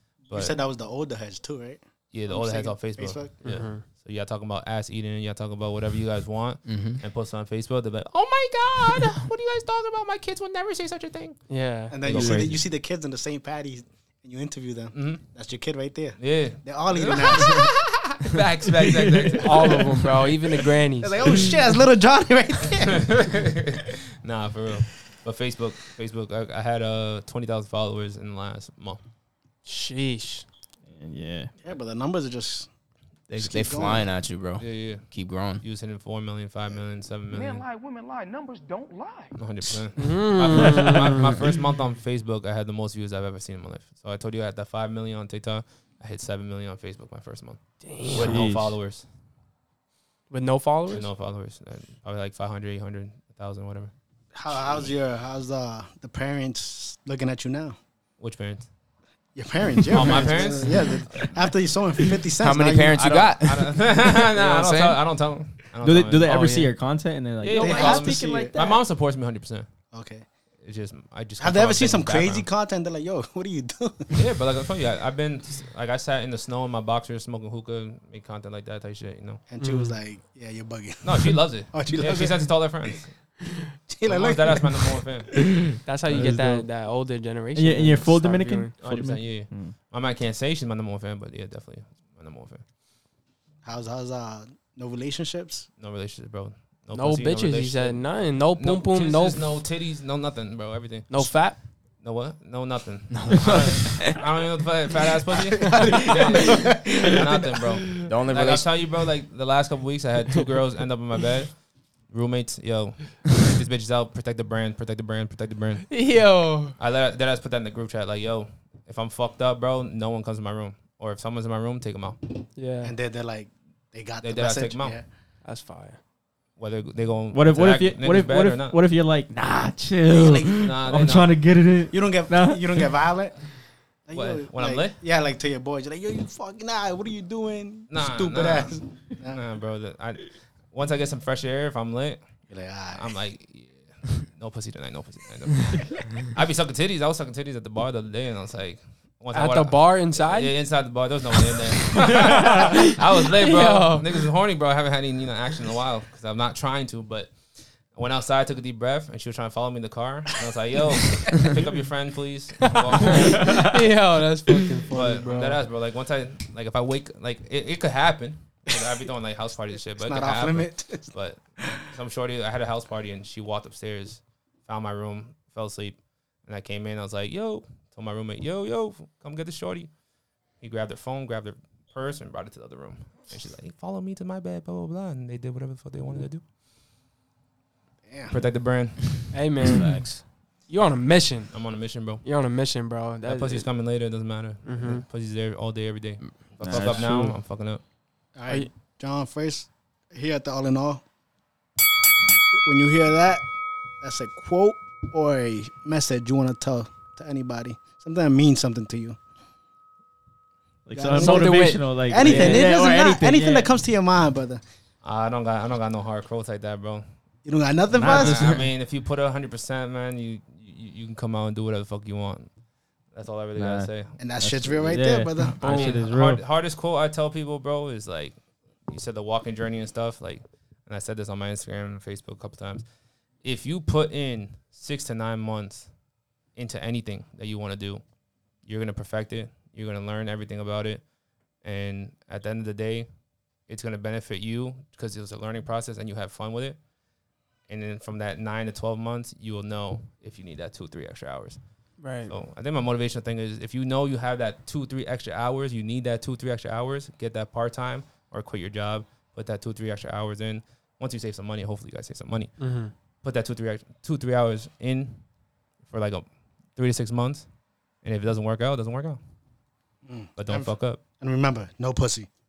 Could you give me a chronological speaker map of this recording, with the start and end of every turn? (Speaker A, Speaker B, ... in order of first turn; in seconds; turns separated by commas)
Speaker A: 0.3-0.6, Speaker B: 0.3-3.3, Speaker A: 2.1-11.4, Speaker C: 3.4-3.8, Speaker D: 6.7-7.0, Speaker C: 11.5-11.9, Speaker B: 11.9-17.7, Speaker A: 12.1-12.6, Speaker E: 12.1-12.5, Speaker A: 14.9-15.2, Speaker A: 16.2-20.0, Speaker E: 18.8-19.9, Speaker C: 19.3-21.5, Speaker B: 21.0-23.3, Speaker A: 22.8-29.0, Speaker C: 29.6-30.4, Speaker E: 30.9-31.5, Speaker B: 31.6-32.7, Speaker D: 33.3-35.6, Speaker B: 33.3-34.1, Speaker A: 34.6-37.6, Speaker F: 37.3-39.4, Speaker A: 39.4-49.0, Speaker C: 40.0-41.4, Speaker E: 40.7-41.0, Speaker C: 47.8-48.5, Speaker E: 48.1-48.8, Speaker C: 50.3-51.1, Speaker A: 50.9-53.9, Speaker B: 54.3-57.8, Speaker A: 58.2-58.7, Speaker B: 59.4-63.3, Speaker A: 59.9-61.4, Speaker D: 62.4-65.0, Speaker A: 63.0-66.3, Speaker E: 65.8-68.8, Speaker C: 66.2-66.7, Speaker A: 67.4-69.7, Speaker B: 67.6-68.5, Speaker B: 69.9-70.3, Speaker A: 70.6-72.5, Speaker B: 71.4-74.3, Speaker A: 74.1-79.4, Speaker B: 79.5-82.9, Speaker C: 79.6-79.9, Speaker A: 81.0-83.1, Speaker B: 83.9-85.0, Speaker A: 84.0-85.4, Speaker E: 85.6-86.7, Speaker C: 85.8-88.7, Speaker E: 87.5-89.7, Speaker A: 88.8-92.6, Speaker B: 93.6-95.7, Speaker A: 95.8-116.1, Speaker C: 96.9-99.5, Speaker C: 101.1-101.6, Speaker D: 103.1-104.2, Speaker B: 105.6-106.9, Speaker C: 105.6-107.1, Speaker D: 108.0-108.7, Speaker C: 115.9-116.8, Speaker A: 116.8-122.5, Speaker C: 122.5-122.9, Speaker B: 122.8-125.0, Speaker A: 124.2-125.0, Speaker C: 125.4-126.0, Speaker A: 126.6-128.8, Speaker E: 127.3-132.9, Speaker B: 130.1-130.5, Speaker A: 130.6-131.4, Speaker B: 131.9-133.3, Speaker B: 134.0-139.4, Speaker A: 134.1-135.0, Speaker A: 137.9-142.2, Speaker B: 142.5-143.1, Speaker A: 142.9-163.8, Speaker C: 149.3-150.6, Speaker C: 152.0-154.2, Speaker C: 162.9-165.6, Speaker A: 164.9-179.9, Speaker B: 169.9-171.1, Speaker A: 180.6-186.4, Speaker B: 188.1-188.4, Speaker A: 188.3-190.1, Speaker C: 189.3-191.6, Speaker A: 191.5-192.2, Speaker C: 192.2-193.7, Speaker A: 193.2-197.8, Speaker C: 194.6-195.0, Speaker E: 196.6-197.4, Speaker B: 196.7-197.0, Speaker B: 198.3-201.0, Speaker B: 202.5-203.4, Speaker B: 204.0-209.2, Speaker E: 210.8-213.7, Speaker B: 210.9-214.6, Speaker C: 211.1-212.7, Speaker A: 215.0-217.0, Speaker B: 217.4-218.7, Speaker E: 217.9-218.6, Speaker A: 218.0-222.5, Speaker A: 223.1-224.2, Speaker E: 223.6-226.4, Speaker B: 224.2-225.9, Speaker A: 225.6-232.8, Speaker A: 233.4-235.9, Speaker A: 236.5-238.0, Speaker A: 238.6-241.0, Speaker A: 241.6-243.1, Speaker A: 243.7-246.8, Speaker A: 247.7-251.6, Speaker C: 252.0-252.3, Speaker A: 252.2-265.2, Speaker C: 262.6-262.9, Speaker A: 265.9-266.2, Speaker A: 266.8-267.5, Speaker A: 268.0-269.2, Speaker B: 270.0-272.3, Speaker A: 270.4-271.0